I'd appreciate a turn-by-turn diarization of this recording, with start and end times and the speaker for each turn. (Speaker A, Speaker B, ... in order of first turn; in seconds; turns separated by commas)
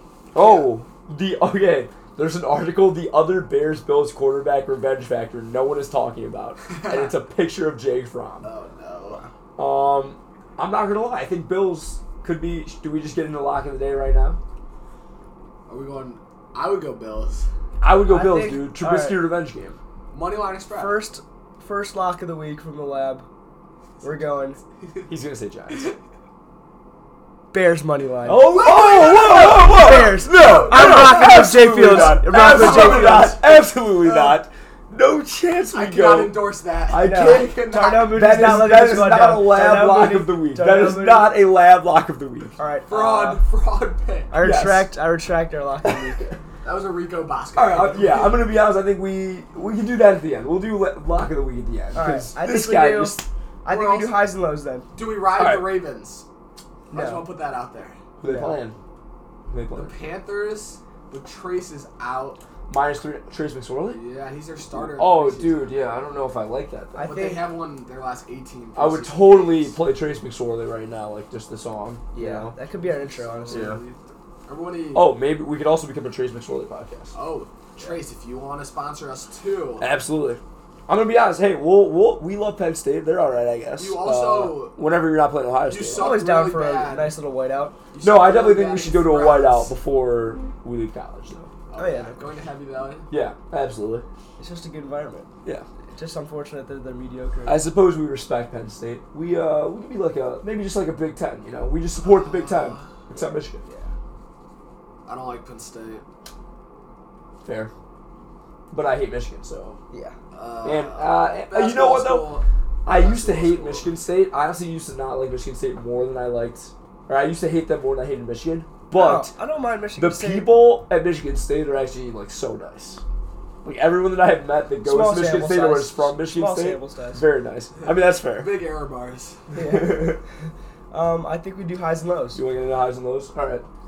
Speaker A: 0.3-8.5, Speaker B: 0.3-0.7, Speaker B: 6.7-7.2, Speaker B: 8.4-9.3, Speaker A: 9.6-14.4, Speaker B: 15.7-17.5, Speaker A: 17.8-19.8, Speaker C: 18.0-19.3, Speaker B: 20.1-21.0, Speaker C: 20.8-23.3, Speaker C: 24.0-24.6, Speaker A: 25.1-25.9, Speaker C: 27.5-28.5, Speaker A: 28.2-42.6, Speaker B: 28.4-34.4, Speaker C: 29.7-33.4, Speaker B: 35.7-38.2, Speaker C: 36.9-41.4, Speaker C: 42.6-43.4, Speaker B: 42.9-44.4, Speaker C: 44.3-46.3, Speaker A: 44.4-44.9, Speaker A: 45.9-46.4, Speaker B: 46.6-48.4, Speaker A: 47.5-53.3, Speaker C: 51.9-54.9, Speaker B: 53.7-54.3, Speaker B: 54.9-56.2, Speaker A: 55.4-55.8, Speaker C: 56.9-57.3, Speaker B: 56.9-58.0, Speaker A: 58.2-58.8, Speaker C: 58.2-58.6, Speaker A: 59.5-60.0, Speaker B: 59.7-62.4, Speaker A: 62.7-64.0, Speaker B: 63.9-65.9, Speaker A: 64.7-67.2, Speaker C: 67.0-67.5, Speaker B: 67.0-69.8, Speaker A: 68.8-72.5, Speaker C: 72.1-73.8, Speaker B: 72.8-75.1, Speaker A: 73.5-73.8, Speaker A: 74.9-77.1, Speaker B: 77.1-79.9, Speaker A: 79.8-86.2, Speaker B: 83.8-84.8, Speaker B: 85.7-87.2, Speaker C: 85.9-87.8, Speaker B: 87.9-89.8, Speaker A: 88.0-91.5, Speaker B: 91.7-93.1, Speaker C: 91.8-92.4, Speaker A: 93.1-94.0, Speaker C: 94.4-95.3, Speaker C: 95.9-97.7, Speaker A: 97.5-103.6, Speaker B: 102.0-102.9, Speaker C: 103.7-103.9, Speaker B: 105.1-106.0, Speaker A: 107.4-107.7, Speaker A: 108.7-109.8, Speaker B: 110.3-114.0, Speaker A: 110.6-119.3, Speaker C: 118.9-120.5, Speaker A: 120.0-123.0, Speaker A: 123.6-128.6, Speaker C: 124.8-127.2, Speaker B: 127.8-129.5, Speaker C: 129.5-130.2, Speaker A: 129.6-130.2, Speaker C: 130.9-132.4, Speaker A: 132.3-133.7